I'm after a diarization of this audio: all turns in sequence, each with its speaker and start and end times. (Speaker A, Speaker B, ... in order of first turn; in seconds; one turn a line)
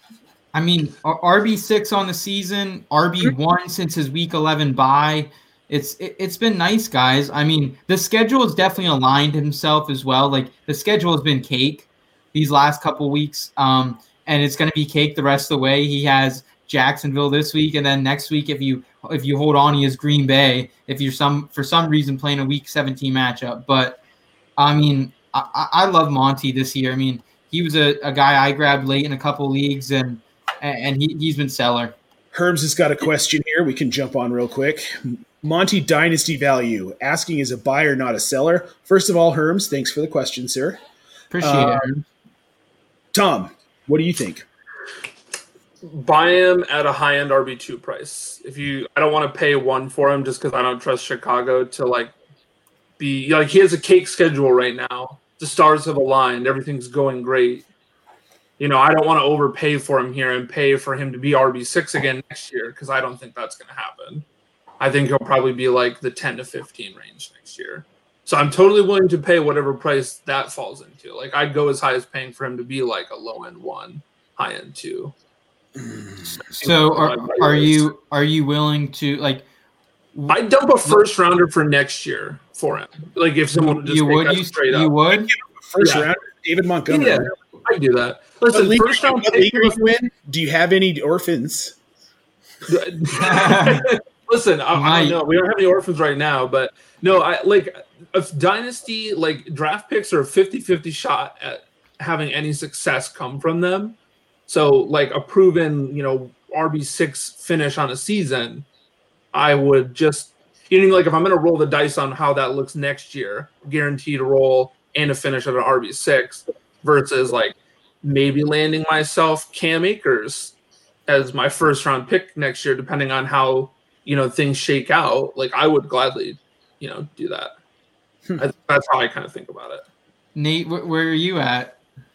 Speaker A: 0.5-24.0
Speaker A: 24.6-31.9
Speaker B: 32.3-40.8
Speaker A: 41.3-42.0
Speaker B: 41.4-41.9
Speaker B: 43.1-44.4
Speaker C: 45.8-52.1
Speaker C: 53.0-57.6
Speaker C: 58.6-64.2
Speaker C: 64.8-75.1
Speaker B: 75.8-76.1
Speaker C: 76.5-77.8
Speaker A: 76.6-79.4
Speaker A: 80.1-81.0
Speaker C: 80.3-84.9
Speaker A: 83.5-85.3
Speaker B: 85.3-87.4
Speaker C: 85.8-86.1
Speaker C: 86.9-89.8
Speaker B: 88.5-91.8
Speaker C: 92.7-108.6
Speaker A: 93.2-93.8
Speaker A: 94.7-95.2
Speaker C: 109.3-120.5
Speaker C: 121.1-127.5
Speaker C: 128.4-129.8
Speaker A: 130.3-131.8